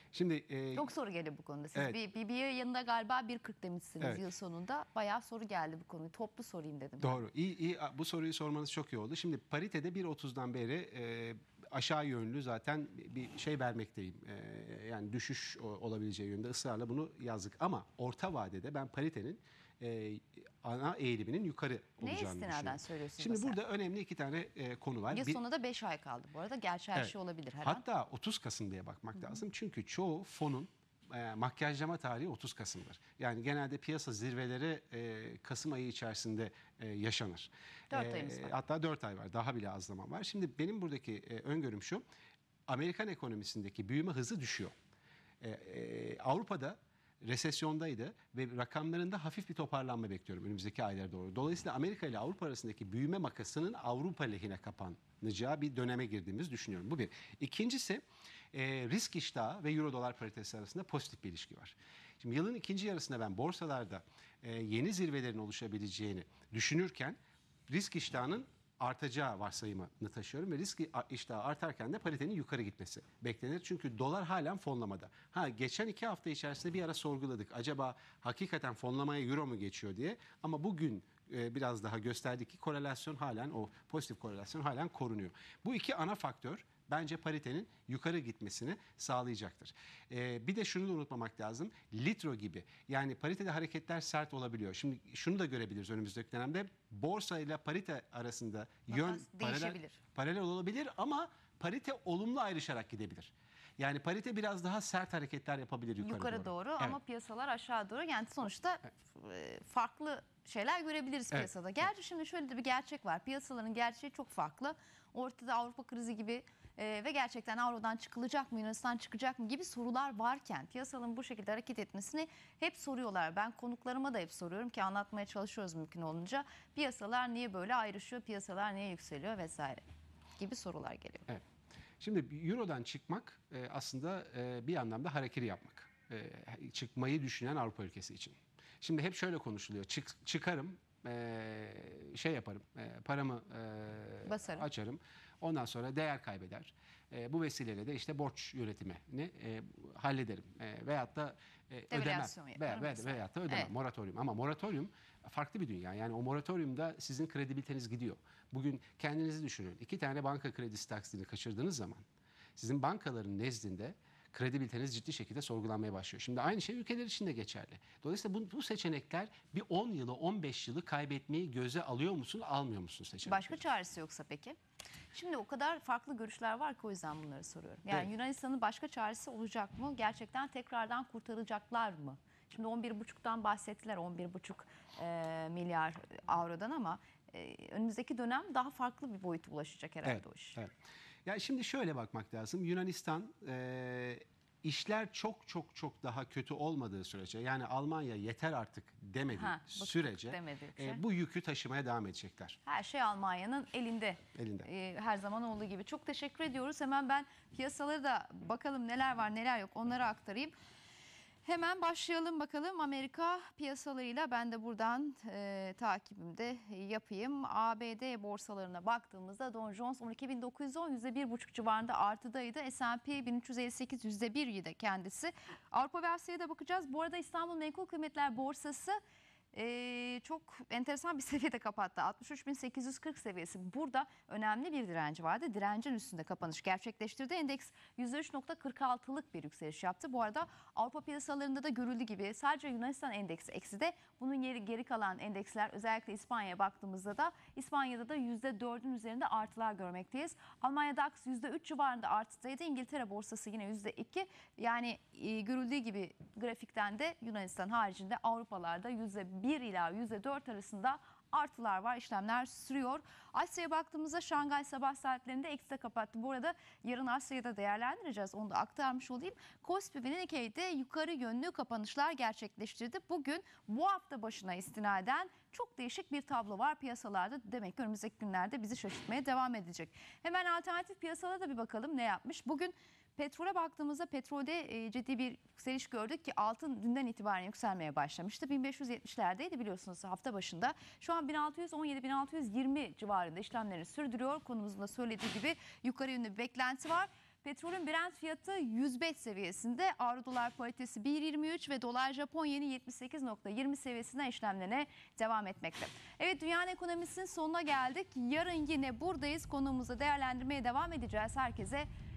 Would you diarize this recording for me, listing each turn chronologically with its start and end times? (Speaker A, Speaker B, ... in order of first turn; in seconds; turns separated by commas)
Speaker A: 0.1-0.9, Speaker B: 0.8-7.2, Speaker A: 4.0-4.3, Speaker A: 7.0-25.4, Speaker B: 22.0-23.6, Speaker B: 25.1-27.8, Speaker A: 26.9-42.0, Speaker B: 37.9-38.6, Speaker A: 42.7-44.7, Speaker A: 45.4-67.2, Speaker A: 67.7-107.0, Speaker B: 98.9-100.0, Speaker B: 106.0-129.8, Speaker B: 130.4-131.3, Speaker A: 132.0-162.0, Speaker B: 144.3-144.7, Speaker B: 151.9-153.7, Speaker A: 162.6-173.6, Speaker B: 173.3-174.6, Speaker B: 175.1-190.6, Speaker A: 190.0-190.7, Speaker A: 191.2-202.6, Speaker B: 199.3-201.0, Speaker B: 202.7-210.6, Speaker A: 204.3-204.7, Speaker B: 211.4-229.0, Speaker B: 229.5-311.9